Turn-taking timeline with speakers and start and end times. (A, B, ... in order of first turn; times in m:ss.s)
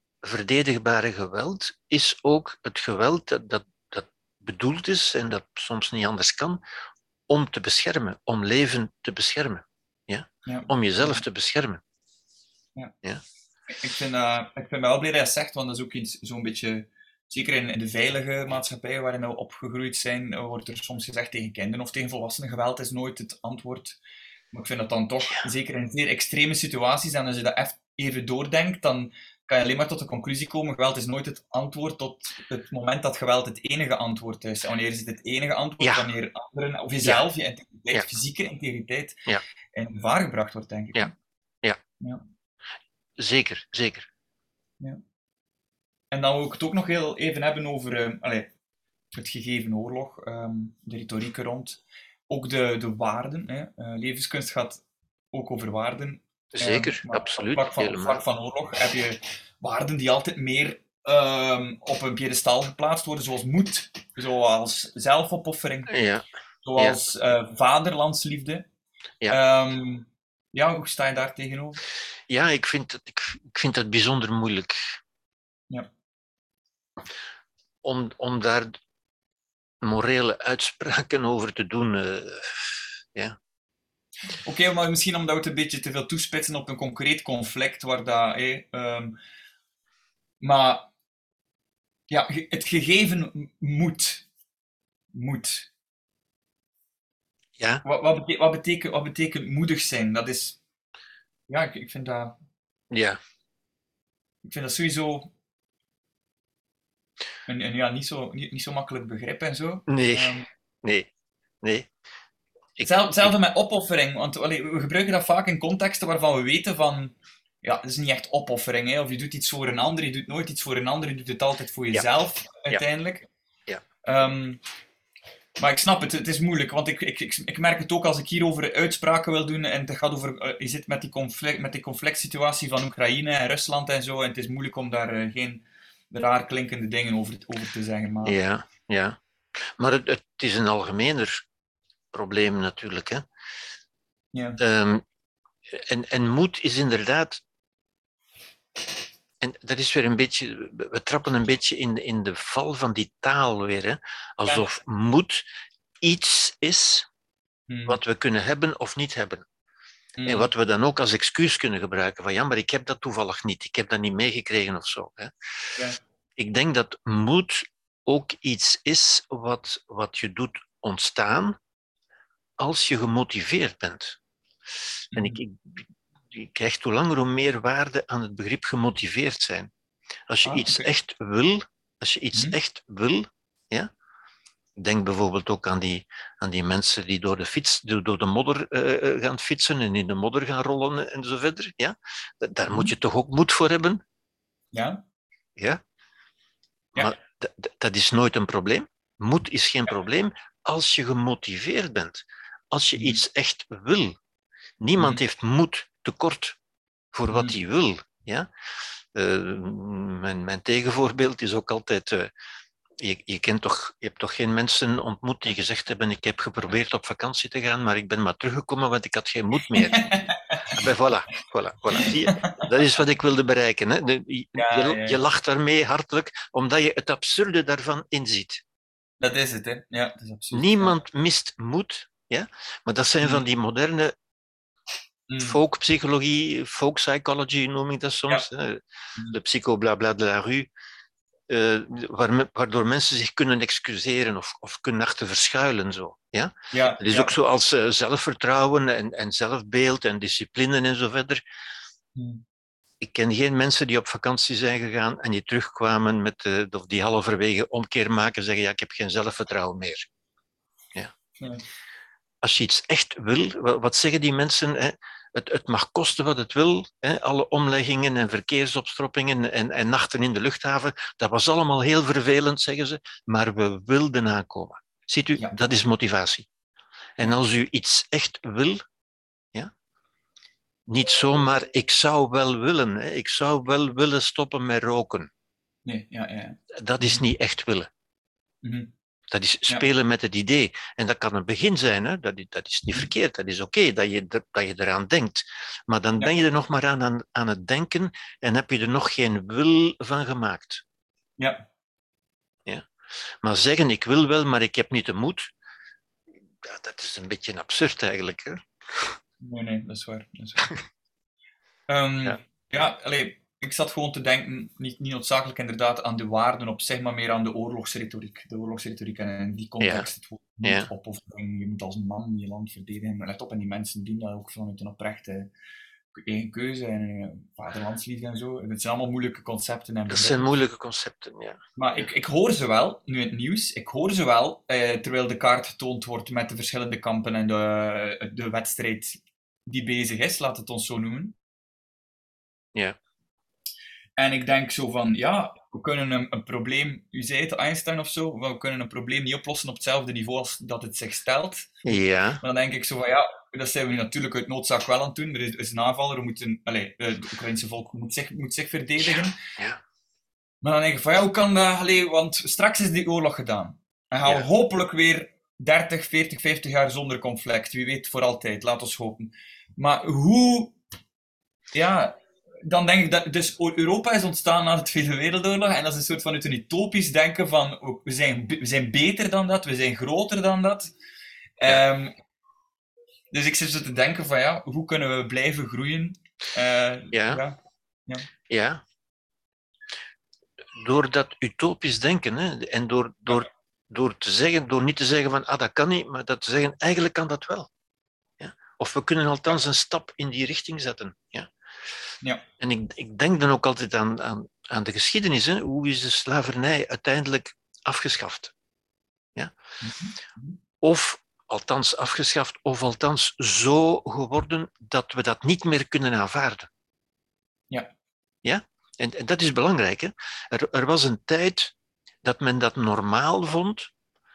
0:00.2-0:06.6 A
0:07.3-0:11.8 A
0:10.4-0:11.2 B
0:13.7-0:24.0 B
0:24.5-0:39.2 B
0:35.8-0:36.0 A
0:39.7-0:41.1 B
0:43.2-0:44.1 A
0:46.1-0:48.5 B
0:49.1-1:05.9 B
0:56.5-0:58.2 A
1:05.9-1:06.2 A
1:06.6-1:08.6 B
1:09.3-1:11.8 B
1:12.3-1:14.8 A
1:17.8-1:18.7 A
1:19.8-1:23.4 A
1:24.3-1:29.1 B
1:30.4-1:30.9 B
1:32.1-1:34.2 B
1:35.1-1:35.7 B
1:37.6-1:37.8 A
1:37.8-1:40.6 B
1:41.5-1:42.4 B
1:42.9-1:43.2 A
1:44.4-1:45.3 B
1:47.5-1:50.4 B
1:49.9-1:51.1 A
1:51.6-1:51.9 A
1:52.8-1:53.3 A
1:52.8-2:03.3 B
2:04.0-2:04.6 B
2:05.6-2:18.4 B
2:18.2-2:21.4 A
2:22.1-2:23.2 A
2:24.3-2:24.6 B
2:24.6-2:25.0 A
2:25.7-2:27.4 A
2:29.4-2:35.4 A
2:36.0-2:37.1 A
2:37.7-2:38.0 B
2:37.9-2:39.4 A
2:40.2-2:40.5 B
2:40.2-2:45.3 A
2:46.4-2:51.6 A
2:52.6-2:54.2 A
2:55.1-2:55.4 B
2:55.1-2:59.7 A
3:00.3-3:03.9 A
3:00.4-3:00.9 B
3:04.8-3:14.0 A
3:14.7-3:15.0 B
3:17.0-3:24.2 A
3:24.8-3:26.6 A
3:27.1-3:28.5 A
3:27.3-3:27.5 B
3:29.1-3:32.3 A
3:33.0-3:40.0 A
3:39.7-3:40.8 B
3:40.7-3:48.6 A
3:41.9-3:42.7 B
3:44.5-3:45.2 B
3:49.2-3:50.9 B
3:50.5-3:54.1 A
3:55.3-3:55.6 B
3:55.4-4:00.7 A
4:01.5-4:11.4 A
4:06.7-4:07.3 B
4:12.2-4:12.4 B
4:13.0-4:20.1 A
4:21.4-4:21.6 B
4:22.4-4:36.5 A
4:37.2-4:38.8 A
4:40.9-4:45.3 A
4:45.8-4:47.2 B
4:46.7-4:47.9 A
4:48.6-4:48.9 B
4:49.3-5:00.8 A
5:01.4-5:01.6 B
5:03.4-5:05.5 A
5:06.6-5:09.2 A
5:09.4-5:10.7 B
5:11.9-5:25.5 B
5:19.8-5:20.1 A
5:20.6-5:20.9 A
5:26.2-5:30.4 B
5:30.1-5:32.0 A
5:31.8-5:41.4 B
5:44.2-5:51.8 B
5:51.8-5:52.4 A
5:52.4-5:59.4 B
5:59.0-5:59.8 A
6:00.6-6:10.8 B
6:11.7-6:20.9 B
6:21.6-6:22.1 B
6:23.3-6:28.3 B
6:27.1-6:27.4 A
6:28.5-6:28.8 A
6:30.8-6:37.7 A
6:38.4-6:41.5 A
6:42.6-6:48.5 A
6:49.8-6:50.6 B
6:50.8-6:56.7 A
6:58.4-7:03.9 A